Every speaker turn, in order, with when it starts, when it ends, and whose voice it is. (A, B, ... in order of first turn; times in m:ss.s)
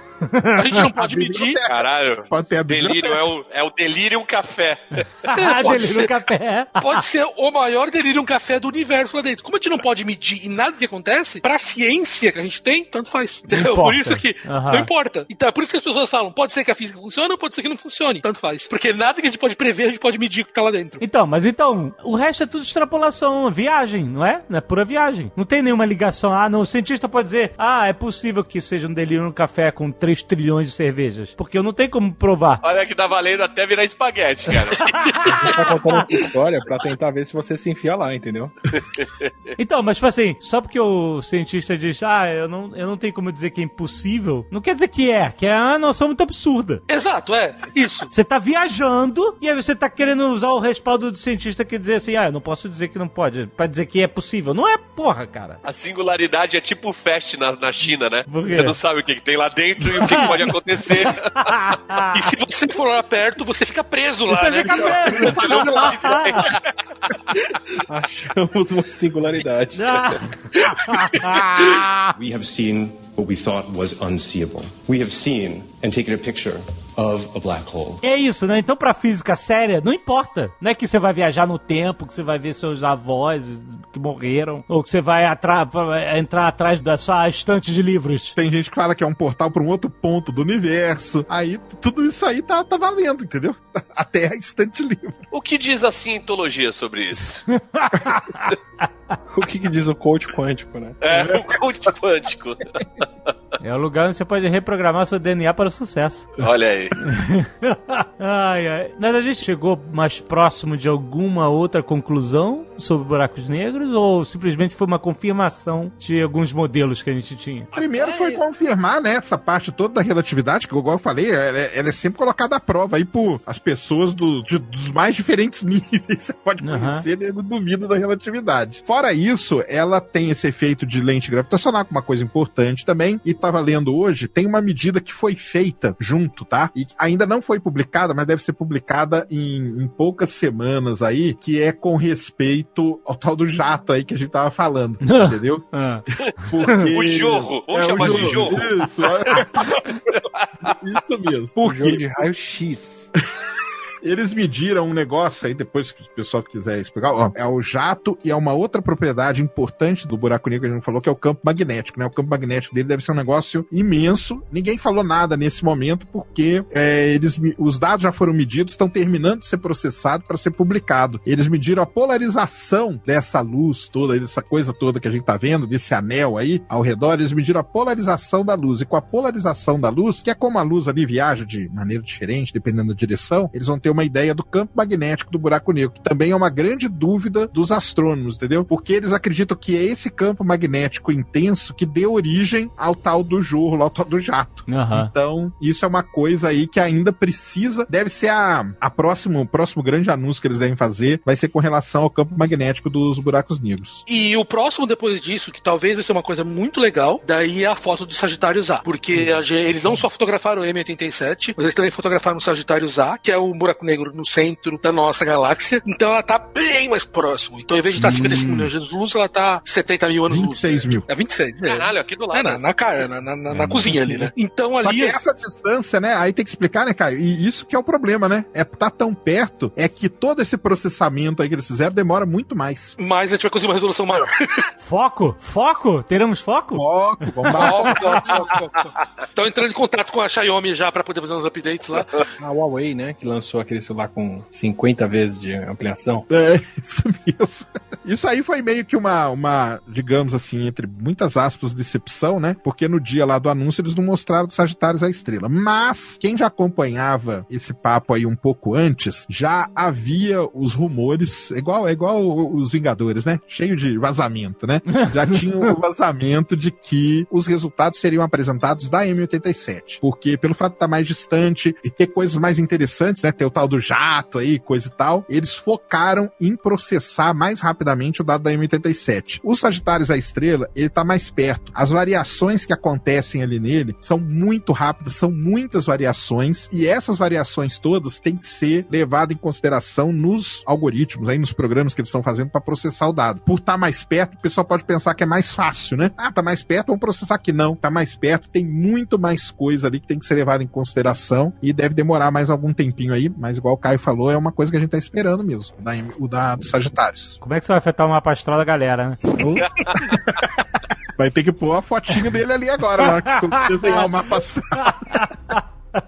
0:00.2-0:00.8 A
0:00.6-0:01.6 B
0:00.9-0:03.3 C
0:01.6-0:05.3 D
0:05.3-0:07.0 A
0:05.3-0:06.2 B
0:06.8-0:21.0 B
0:13.5-0:14.9 A
0:21.0-0:32.6 A
0:32.6-0:35.6 D
0:34.9-0:36.0 A
0:35.3-0:38.6 E
0:38.8-0:39.3 D
0:39.6-0:46.8 A
0:46.9-0:48.1 B
0:48.1-0:55.6 A
0:55.6-1:01.7 D
0:58.3-0:58.7 A
1:00.0-1:00.4 A
1:01.4-1:02.2 A
1:02.1-1:05.6 B
1:04.3-1:06.4 A
1:04.6-1:06.4 C
1:05.5-1:06.6 D
1:07.9-1:10.1 E
1:09.8-1:12.1 A
1:12.1-1:18.0 F
1:18.0-1:28.4 A
1:28.4-1:35.2 C
1:35.3-1:37.4 D
1:37.6-1:38.5 A
1:39.3-1:41.0 E
1:41.0-1:43.3 D
1:41.1-1:41.5 C
1:43.6-1:46.4 A
1:46.4-1:47.0 D
1:47.0-1:57.7 A
1:57.7-2:25.7 C
1:57.9-1:58.4 B
2:06.6-2:07.1 A
2:25.0-2:26.0 A
2:26.4-2:29.9 C
2:26.6-2:26.9 A
2:26.8-2:29.4 D
2:30.7-2:32.1 C
2:31.6-2:33.1 E
2:34.0-3:24.0 C
3:14.7-3:15.1 A
3:24.1-3:45.2 B
3:38.0-3:38.7 A
3:40.3-3:41.1 C
3:41.6-3:42.7 D
3:43.5-3:44.3 A
3:44.8-3:53.0 C
3:53.0-3:54.6 B
3:54.8-3:58.0 A
3:56.7-3:58.6 C
3:57.5-4:02.2 B
4:02.4-4:06.3 E
4:06.3-5:07.4 C
5:07.4-5:09.4 A
5:09.4-5:10.4 C
5:11.2-5:15.3 C
5:13.1-5:14.1 A
5:14.8-5:15.2 A